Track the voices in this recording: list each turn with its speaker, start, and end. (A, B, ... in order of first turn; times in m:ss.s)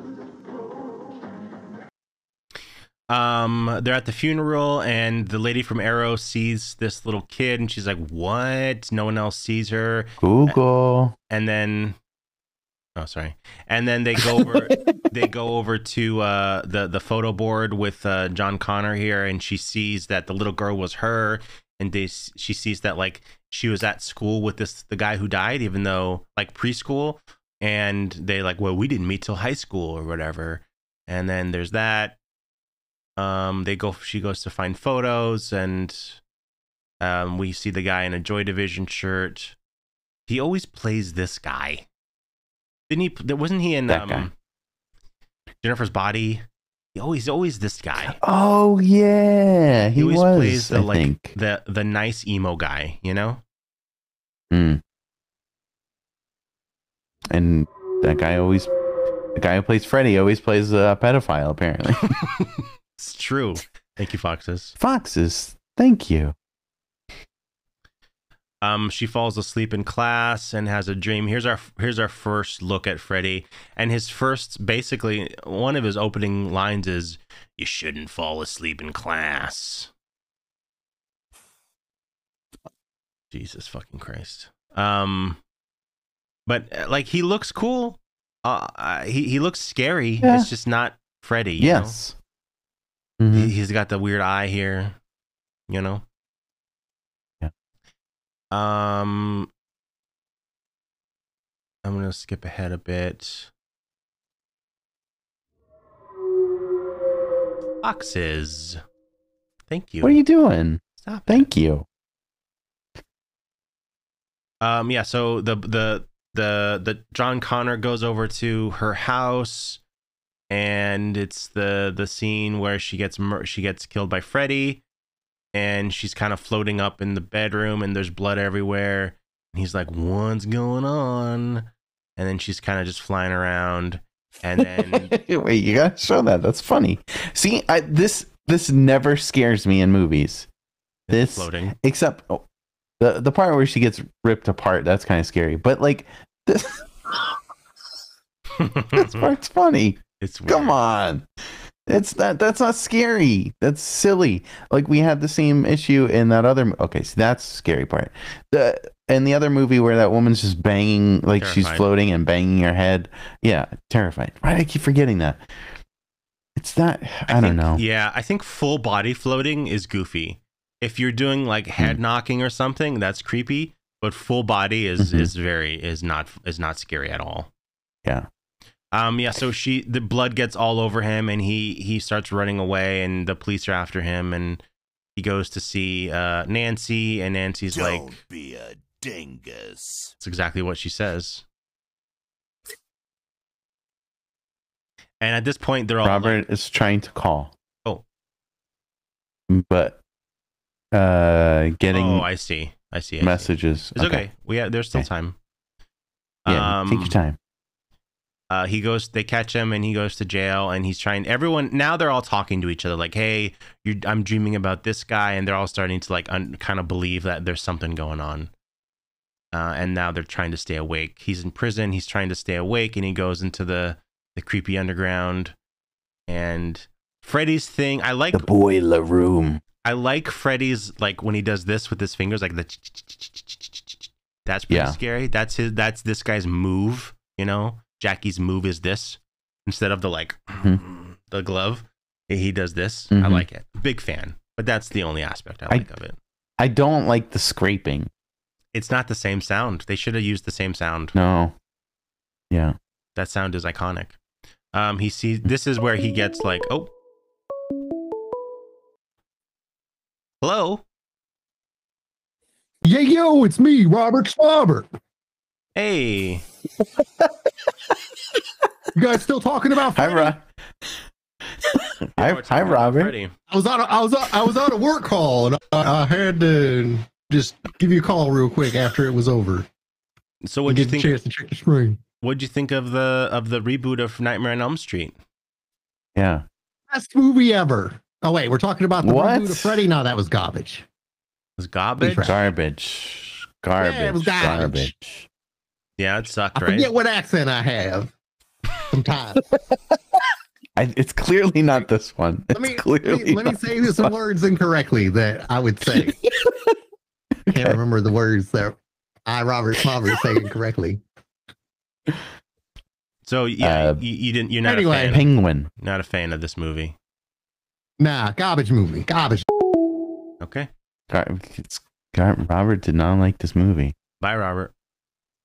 0:03.1-0:10.6 A
0:10.2-0:11.2 B
0:11.3-0:12.0 A
0:13.0-0:32.2 A
0:33.2-0:36.2 A
0:37.0-0:39.6 A
0:40.3-0:41.8 A
0:42.9-0:44.3 A
0:43.9-0:44.3 B
0:45.6-0:48.2 A
0:48.0-0:51.3 B
0:50.0-0:53.4 A
0:54.5-0:54.8 B
0:57.3-0:58.7 B
0:59.4-1:02.1 B
1:02.4-1:04.8 A
1:04.8-1:06.4 B
1:08.6-1:19.9 A
1:23.3-1:25.4 A
1:26.5-1:32.0 A
1:30.2-1:30.5 B
1:31.6-1:32.2 B
1:33.2-1:33.5 B
1:33.3-1:35.0 A
1:35.7-1:36.0 A
1:38.5-1:39.5 A
1:41.8-1:43.5 A
1:47.8-1:48.8 A
1:49.7-1:50.2 A
1:50.0-1:51.9 B
1:51.0-1:51.5 A
1:54.6-1:59.8 A
2:00.5-2:04.8 A
2:05.5-2:15.1 A
2:14.6-2:20.5 B
2:21.1-2:21.8 A
2:21.1-2:22.4 B
2:23.0-2:27.2 B
2:28.6-2:29.3 A
2:28.9-2:31.3 B
2:30.2-2:30.8 A
2:31.9-2:45.4 B
2:41.4-2:41.8 A
2:46.6-2:47.8 B
2:47.3-2:57.5 A
2:55.0-2:55.3 B
2:58.9-3:04.6 A
3:05.2-3:08.1 A
3:07.7-3:10.1 C
3:10.2-3:11.4 A
3:15.2-3:16.4 A
3:16.0-3:17.5 B
3:19.5-3:20.0 B
3:20.9-3:22.3 B
3:21.9-3:25.4 A
3:23.2-3:24.3 B
3:26.4-3:27.2 A
3:26.5-3:27.4 B
3:28.5-3:38.5 A
3:39.5-3:45.6 A
3:46.3-3:48.5 A
3:48.3-3:49.6 B
3:49.8-4:06.2 A
3:54.7-3:55.0 B
4:03.1-4:03.5 B
4:06.6-4:08.1 B
4:08.7-4:11.2 A
4:11.1-4:11.6 B
4:12.5-4:12.8 B
4:13.2-4:14.2 A
4:14.7-4:16.9 A
4:20.4-4:20.8 A
4:22.8-4:24.9 D
4:25.8-4:26.4 A
4:29.0-4:30.3 D
4:30.0-4:30.4 B
4:32.0-4:33.1 B
4:32.2-4:33.3 A
4:33.5-4:39.7 D
4:40.4-4:41.2 A
4:40.7-4:42.0 D
4:42.2-4:45.2 A
4:46.2-4:46.5 B
4:46.9-4:50.8 D
4:49.0-4:49.8 B
4:51.6-4:52.4 A
4:52.0-4:52.4 D
4:52.2-4:54.9 B
4:53.8-4:55.2 D
4:56.0-4:56.9 A
4:56.6-4:58.1 D
4:58.9-4:59.4 D
5:00.8-5:04.1 B
5:02.5-5:06.2 D
5:07.5-5:11.0 D
5:07.5-5:07.8 B
5:13.2-5:15.3 A
5:13.6-5:14.0 B
5:14.8-5:15.7 B
5:15.8-5:17.0 A
5:18.0-5:19.4 D
5:20.4-5:20.7 A
5:21.1-5:23.9 B
5:24.2-5:24.7 A